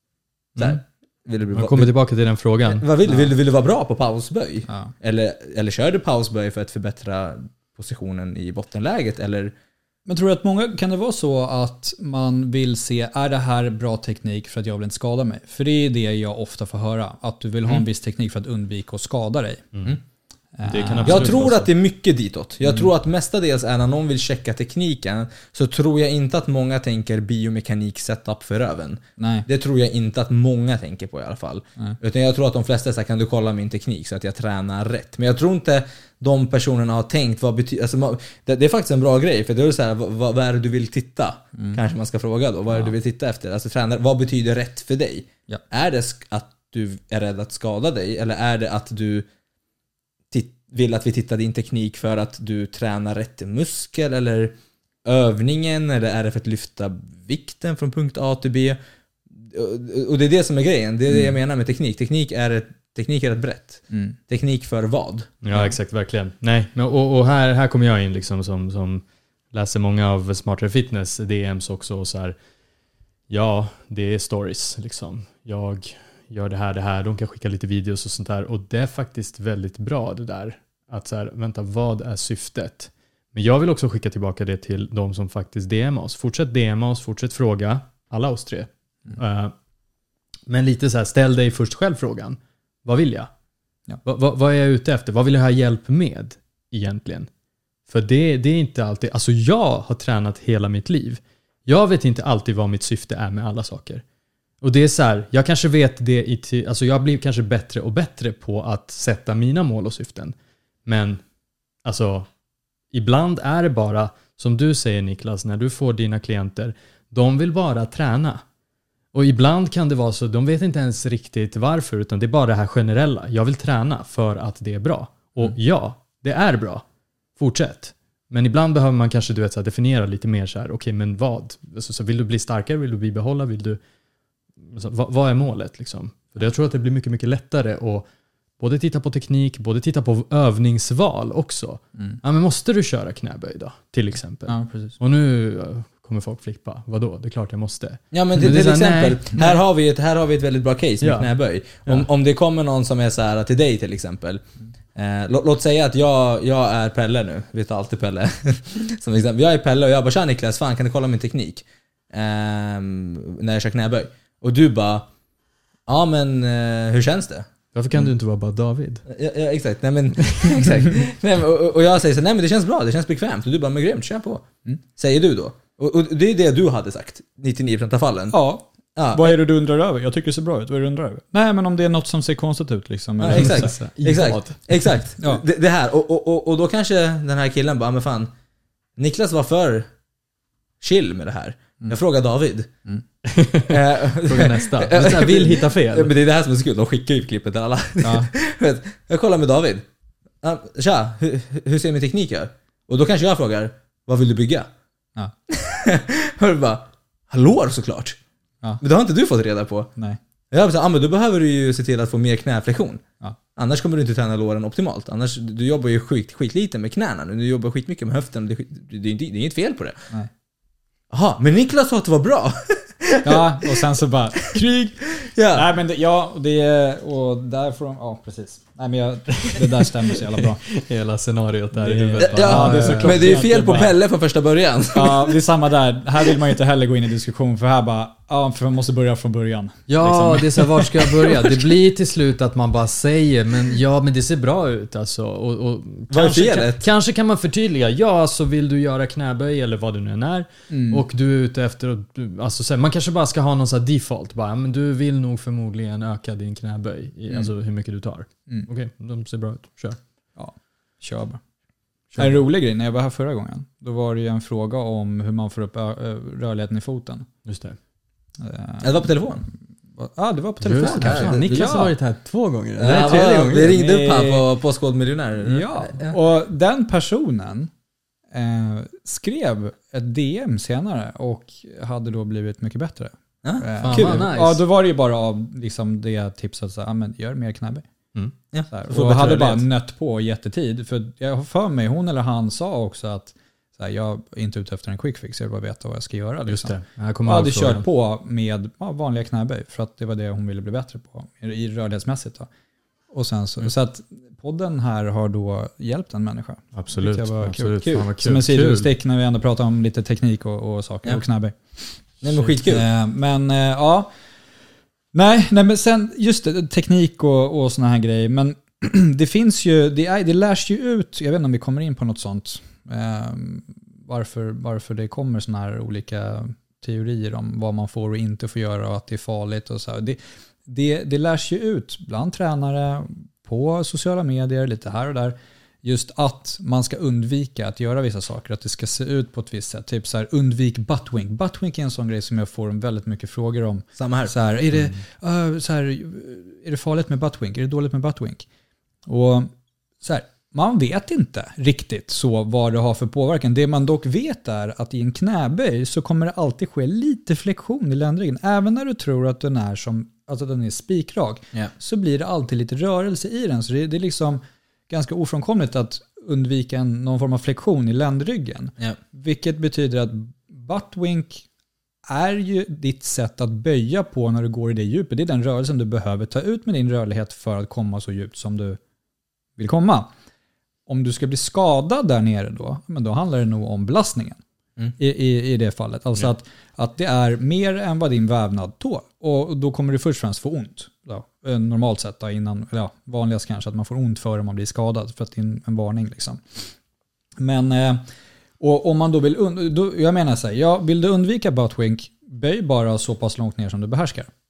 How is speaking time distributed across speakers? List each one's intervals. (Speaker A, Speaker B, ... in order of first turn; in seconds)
Speaker A: 0.6-1.9, 2.7-9.5, 21.1-49.3, 50.3-54.5, 55.0-58.8, 59.4-65.7, 148.1-154.4, 154.9-165.1, 165.9-167.5, 169.1-178.4, 179.0-179.4, 183.2-188.3, 189.0-189.9, 190.8-192.7, 193.7-199.8, 200.4-204.7, 205.5-208.2, 208.8-209.9, 210.5-213.0, 213.6-220.0, 221.1-223.8, 224.4-225.7, 232.2-235.4, 246.1-246.9, 268.8-269.5, 270.8-271.7, 272.8-276.2, 283.4-284.3, 288.5-289.7, 312.2-312.9, 344.0-344.3
Speaker B: 1.6-2.9, 20.6-21.7, 65.4-72.4, 73.3-89.5, 90.5-93.3, 94.0-97.3, 97.9-104.0, 104.6-111.2, 111.8-112.3, 112.9-118.4, 119.1-126.8, 127.4-133.8, 134.6-138.1, 138.6-149.6, 151.0-151.3, 167.7-169.0, 183.3-184.6, 193.2-196.1, 230.4-233.4, 239.9-260.0, 262.1-262.4, 267.4-267.8, 270.6-273.7, 283.8-284.6, 296.5-297.9, 306.7-308.9
Speaker C: 4.7-4.9, 10.1-19.6, 20.6-21.4, 29.2-29.5, 63.9-64.2, 144.5-145.0, 178.3-183.7, 198.0-198.3, 223.2-225.0, 225.5-230.6, 231.8-233.9, 234.9-241.6, 250.7-251.0, 260.4-261.4, 262.2-267.3, 268.4-269.1, 270.0-271.9, 272.9-274.4, 275.4-277.7, 278.3-287.9, 288.7-302.5, 303.1-311.9, 312.6-314.1, 315.1-348.4, 349.1-371.4, 372.1-378.8, 379.6-380.1, 380.9-384.4, 385.0-396.4, 397.4-398.1, 398.6-404.3